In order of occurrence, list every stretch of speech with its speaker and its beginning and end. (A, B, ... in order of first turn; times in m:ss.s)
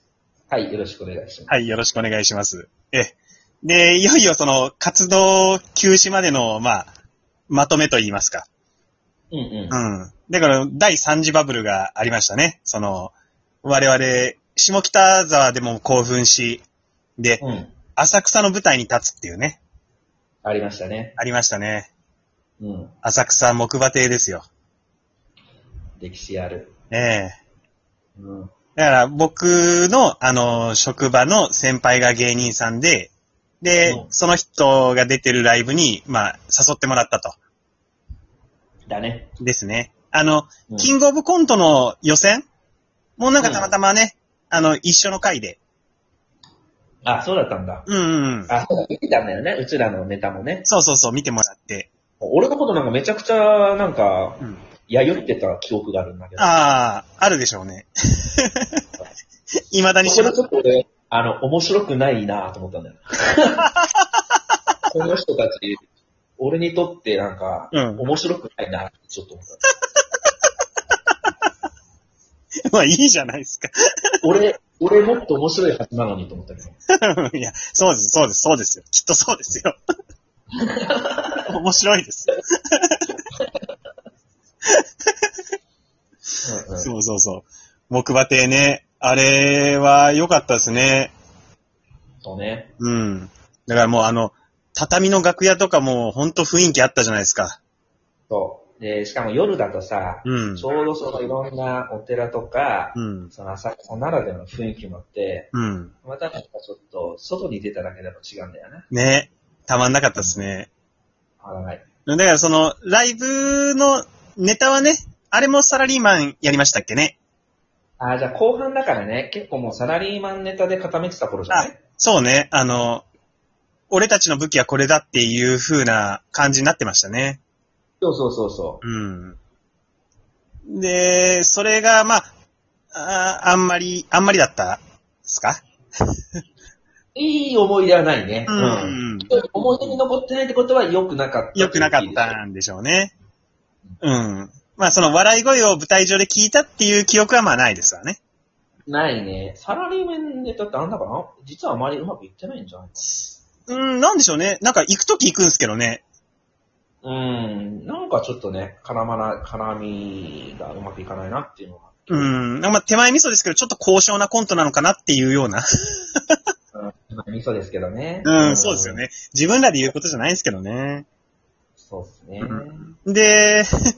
0:00.5-0:01.5 A
0:01.5-0:06.9 B
0:07.5-0:08.5 B
0:09.3-0:09.8 A
0:09.7-0:16.6 B
0:17.4-0:17.7 A
0:17.9-0:19.6 B
0:20.4-0:21.2 A
0:21.2-0:21.9 B
0:22.6-0:22.9 A
0:23.0-0:24.4 B
0:26.0-0:26.7 A
0:26.9-0:27.3 B
0:28.2-0:28.5 A
0:28.7-0:37.4 B
0:33.8-0:34.1 A
0:38.9-0:39.3 A
0:39.4-0:42.4 B
0:43.2-0:45.6 B
0:43.4-0:43.7 A
0:47.0-0:47.9 A
0:47.8-0:48.5 B
0:48.5-0:50.7 A
0:50.6-0:51.9 B
0:52.2-0:56.5 A
0:56.4-0:58.8 B
0:59.7-1:00.3 B
1:00.0-1:03.7 A
1:04.9-1:05.8 A
1:06.4-1:09.6 A
1:07.7-1:08.0 B
1:12.7-1:13.7 B
1:14.2-1:16.8 A
1:17.0-1:19.8 B
1:20.6-1:21.4 A
1:21.5-1:23.1 B
1:26.4-1:26.9 A
1:26.8-1:31.1 B
1:32.2-1:32.7 A
1:32.8-1:37.6 B
1:38.3-1:45.5 A
1:40.2-1:40.6 B
1:42.9-1:43.3 B
1:45.5-1:45.9 B
1:46.0-1:48.9 A
1:48.9-1:50.7 B
1:50.2-1:50.4 A
1:51.4-1:51.8 A
1:52.0-1:57.2 B
1:58.0-2:01.8 A
2:01.5-2:03.0 B
2:03.9-2:07.4 B
2:08.0-2:08.8 A
2:08.8-2:09.4 B
2:10.7-2:12.3 B
2:12.9-2:15.6 B
2:17.1-2:22.4 A
2:18.5-2:19.3 B
2:21.5-2:23.1 B
2:24.0-2:28.2 B
2:28.9-2:33.1 A
2:33.7-2:36.0 B
2:37.0-2:42.3 A
2:42.1-2:46.4 B
2:46.7-2:49.0 A
2:48.2-2:51.0 B
2:51.8-2:52.9 A
2:52.4-2:53.7 B